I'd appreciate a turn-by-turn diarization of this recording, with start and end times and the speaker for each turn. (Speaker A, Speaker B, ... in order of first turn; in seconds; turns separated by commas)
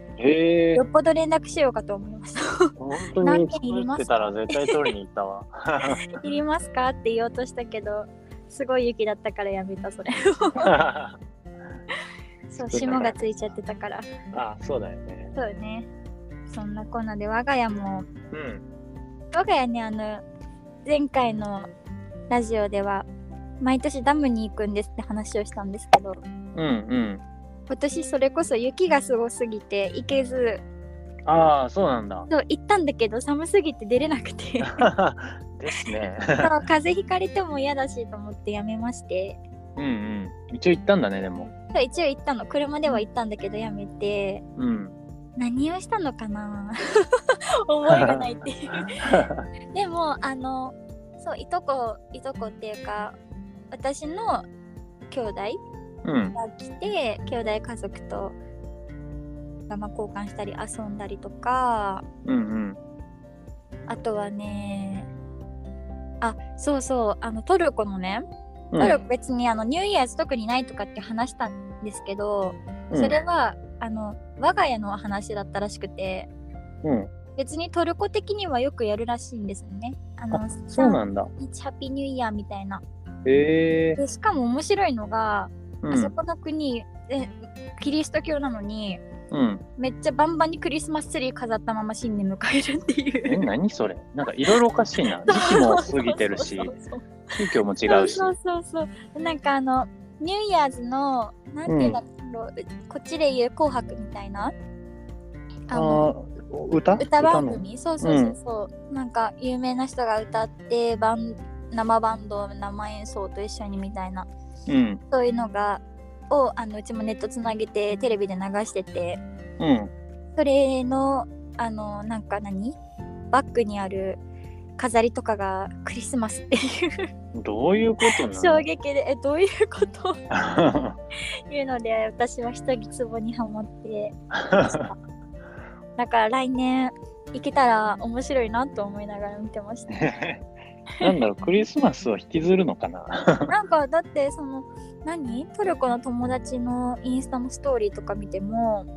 Speaker A: 0.2-0.8, Speaker B: 0.7-4.9, Speaker A: 2.8-6.1, Speaker B: 6.0-10.7, Speaker A: 10.6-11.2, Speaker B: 12.5-14.1, Speaker A: 12.6-13.2, Speaker A: 14.3-15.3, Speaker B: 15.3-15.9, Speaker B: 16.5-18.1, Speaker A: 18.3-18.6, Speaker B: 19.3-20.2, Speaker B: 20.8-21.7, Speaker B: 22.3-23.1, Speaker B: 23.6-26.2, Speaker A: 26.5-27.2, Speaker B: 27.7-30.6, Speaker A: 31.2-32.3, Speaker B: 32.3-34.9, Speaker A: 34.6-36.5, Speaker B: 36.4-39.4, Speaker A: 39.8-41.5, Speaker B: 41.7-44.4, Speaker A: 44.6-45.0, Speaker B: 45.4-49.2, Speaker A: 47.9-49.4, Speaker B: 49.7-53.2, Speaker B: 53.7-54.5, Speaker B: 55.1-55.6, Speaker A: 56.0-56.4, Speaker B: 56.3-58.4, Speaker B: 59.7-62.0, Speaker A: 62.2-62.8, Speaker B: 63.9-65.1, Speaker B: 66.2-68.2, Speaker A: 68.7-69.0, Speaker B: 68.8-76.3, Speaker A: 72.9-73.2, Speaker A: 76.8-77.1, Speaker B: 77.3-82.8, Speaker A: 80.3-81.3, Speaker A: 83.2-84.0, Speaker B: 84.0-89.0, Speaker A: 85.8-86.2, Speaker A: 89.3-89.6, Speaker B: 89.8-93.5, Speaker A: 93.2-96.7, Speaker B: 95.2-97.3, Speaker A: 97.3-98.3, Speaker B: 97.9-104.5, Speaker A: 101.7-102.0, Speaker B: 105.7-106.1, Speaker A: 105.7-108.4, Speaker B: 107.0-114.3, Speaker A: 114.7-115.0, Speaker B: 115.1-119.2, Speaker A: 119.6-119.9, Speaker B: 120.3-122.8, Speaker B: 123.3-124.2, Speaker B: 124.8-127.0, Speaker A: 127.3-128.6, Speaker B: 128.0-130.2, Speaker A: 130.3-131.0, Speaker B: 131.5-134.9, Speaker A: 134.3-134.8, Speaker B: 136.0-140.1, Speaker A: 139.9-140.4, Speaker A: 141.0-143.5, Speaker B: 143.5-148.9